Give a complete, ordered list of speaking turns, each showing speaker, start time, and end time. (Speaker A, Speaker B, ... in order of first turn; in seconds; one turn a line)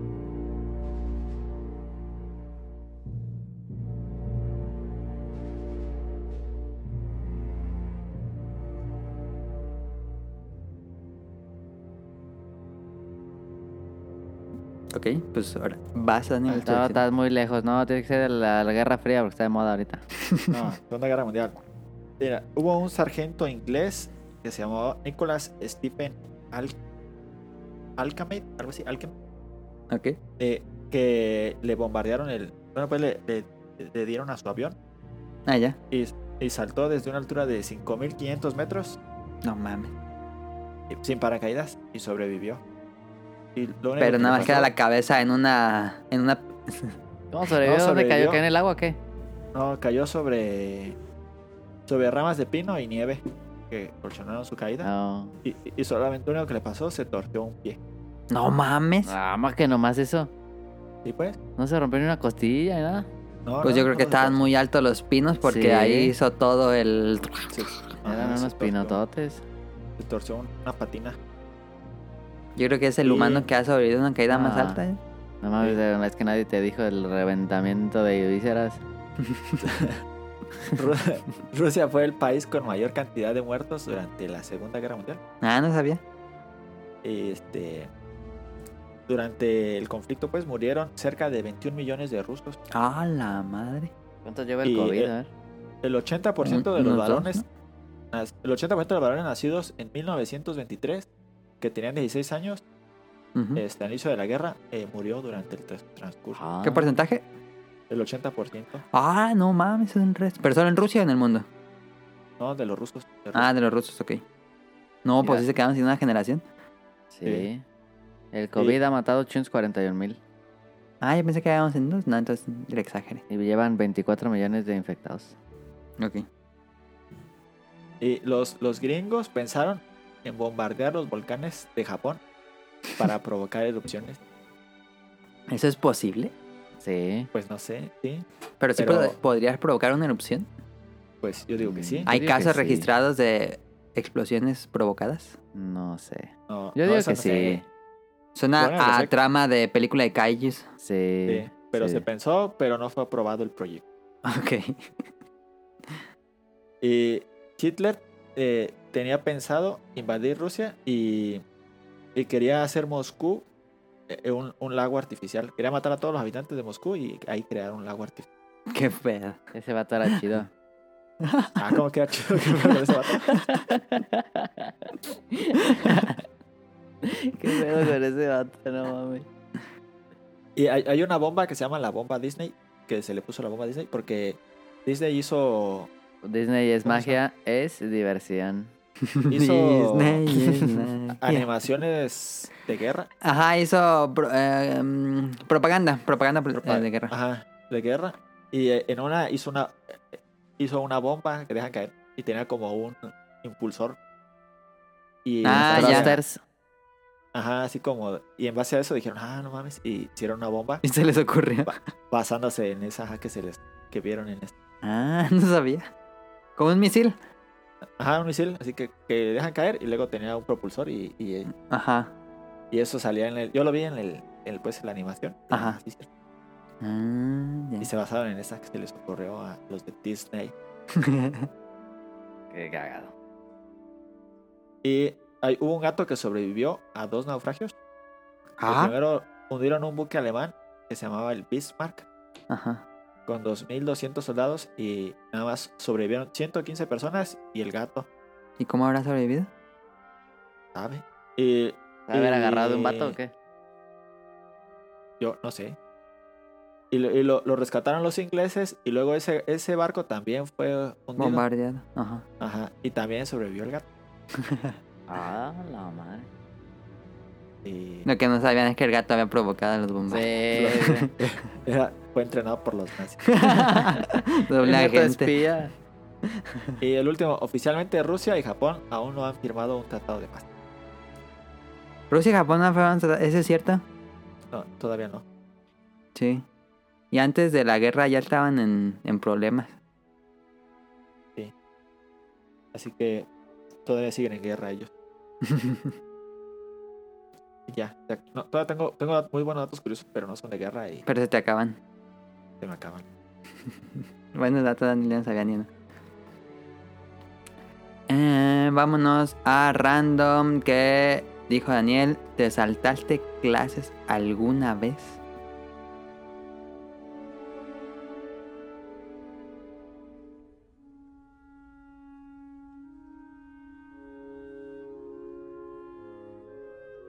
Speaker A: 14.9-17.0
Speaker B: 16.5-20.0
Speaker C: 20.5-21.6
Speaker C: 22.2-26.7
Speaker C: 28.0-29.1
Speaker A: 29.9-30.2
Speaker C: 30.4-34.8
Speaker A: 35.5-35.8
Speaker C: 35.9-39.0
Speaker A: 39.4-39.9
Speaker C: 40.9-42.6
Speaker C: 43.5-44.7
Speaker A: 44.0-46.9
Speaker B: 47.3-49.0
Speaker C: 47.6-48.4
Speaker C: 49.5-51.0
Speaker C: 51.9-54.9
Speaker B: 54.8-55.4
Speaker C: 55.4-57.8
Speaker A: 58.3-59.1
Speaker B: 59.1-60.3
Speaker C: 61.0-61.4
Speaker B: 61.6-63.1
Speaker C: 63.4-64.4
Speaker A: 63.6-67.6
Speaker B: 65.4-66.1
Speaker C: 67.5-69.0
Speaker B: 68.0-69.4
Speaker C: 70.0-71.2
Speaker A: 72.6-75.0
Speaker C: 73.0-73.5
Speaker B: 74.3-74.8
Speaker B: 75.4-78.8
Speaker C: 79.6-80.0
Speaker C: 80.8-85.2
Speaker A: 85.4-86.0
Speaker C: 87.0-87.9
Speaker C: 89.1-92.6
Speaker A: 92.7-93.9
Speaker B: 94.2-95.3
Speaker C: 94.6-95.1
Speaker C: 95.8-97.4
Speaker A: 96.4-97.4
Speaker C: 98.1-101.1
Speaker C: 101.6-102.6
Speaker A: 103.3-103.6
Speaker C: 103.6-106.4
Speaker B: 106.3-106.9
Speaker A: 106.6-107.2
Speaker C: 107.9-108.8
Speaker A: 108.9-111.5
Speaker C: 112.4-113.5
Speaker A: 113.3-114.2
Speaker A: 115.0-116.4
Speaker B: 117.1-117.6
Speaker B: 118.3-120.2
Speaker A: 121.0-123.2
Speaker B: 123.3-125.3
Speaker A: 126.0-126.3
Speaker C: 128.0-132.2
Speaker C: 133.0-134.2
Speaker A: 135.5-136.3
Speaker B: 136.8-137.3
Speaker C: 137.3-138.2
Speaker A: 138.6-140.5
Speaker C: 138.8-139.2
Speaker C: 141.2-142.1
Speaker B: 141.6-142.9
Speaker A: 142.1-145.4
Speaker B: 145.6-147.6
Speaker C: 146.5-147.6
Speaker A: 148.3-150.7
Speaker C: 148.6-149.1
Speaker B: 150.8-152.0
Speaker C: 151.3-153.8
Speaker A: 154.2-154.9
Speaker C: 156.8-161.4
Speaker C: 162.1-163.4
Speaker C: 164.1-168.3
Speaker A: 168.7-169.4
Speaker B: 169.6-170.5
Speaker A: 171.2-171.6
Speaker C: 171.6-173.4
Speaker B: 173.5-175.9
Speaker A: 175.6-176.2
Speaker B: 177.0-179.3
Speaker A: 177.6-177.9
Speaker C: 180.6-185.9
Speaker B: 186.2-188.7
Speaker C: 186.8-187.2
Speaker A: 189.1-191.5
Speaker C: 189.3-190.2
Speaker C: 191.2-193.1
Speaker A: 193.2-197.1
Speaker C: 196.5-204.0
Speaker C: 205.2-206.2
Speaker A: 205.4-206.1
Speaker B: 205.6-206.4
Speaker C: 207.3-210.8
Speaker A: 210.8-211.8
Speaker C: 211.7-214.5
Speaker A: 214.8-215.9
Speaker A: 216.6-217.2
Speaker C: 218.0-221.5
Speaker A: 221.6-222.1
Speaker C: 222.7-226.1
Speaker A: 225.5-225.8
Speaker A: 226.8-227.9
Speaker C: 227.8-230.5
Speaker A: 230.9-231.5
Speaker B: 232.5-233.1
Speaker C: 234.8-237.7
Speaker A: 238.6-238.9
Speaker C: 238.7-242.1
Speaker A: 242.5-242.8
Speaker C: 243.3-248.1
Speaker A: 248.6-249.5
Speaker C: 250.7-253.2
Speaker B: 252.1-253.3
Speaker C: 255.2-255.8
Speaker C: 256.9-261.4
Speaker A: 261.2-262.2
Speaker C: 262.4-263.9
Speaker A: 264.4-264.7
Speaker B: 265.1-266.3
Speaker C: 267.6-268.1
Speaker A: 268.1-271.1
Speaker B: 270.1-271.1
Speaker C: 270.6-273.4
Speaker A: 273.3-275.3
Speaker B: 274.6-275.7
Speaker A: 276.3-276.7
Speaker C: 276.8-280.5
Speaker A: 282.1-283.8
Speaker C: 284.5-285.2
Speaker A: 286.1-286.4
Speaker A: 287.1-289.7
Speaker C: 292.7-293.3
Speaker C: 293.9-294.9
Speaker A: 295.4-295.9
Speaker C: 297.7-301.1
Speaker A: 301.1-301.8
Speaker C: 302.6-303.1
Speaker A: 304.3-305.7
Speaker A: 308.1-315.2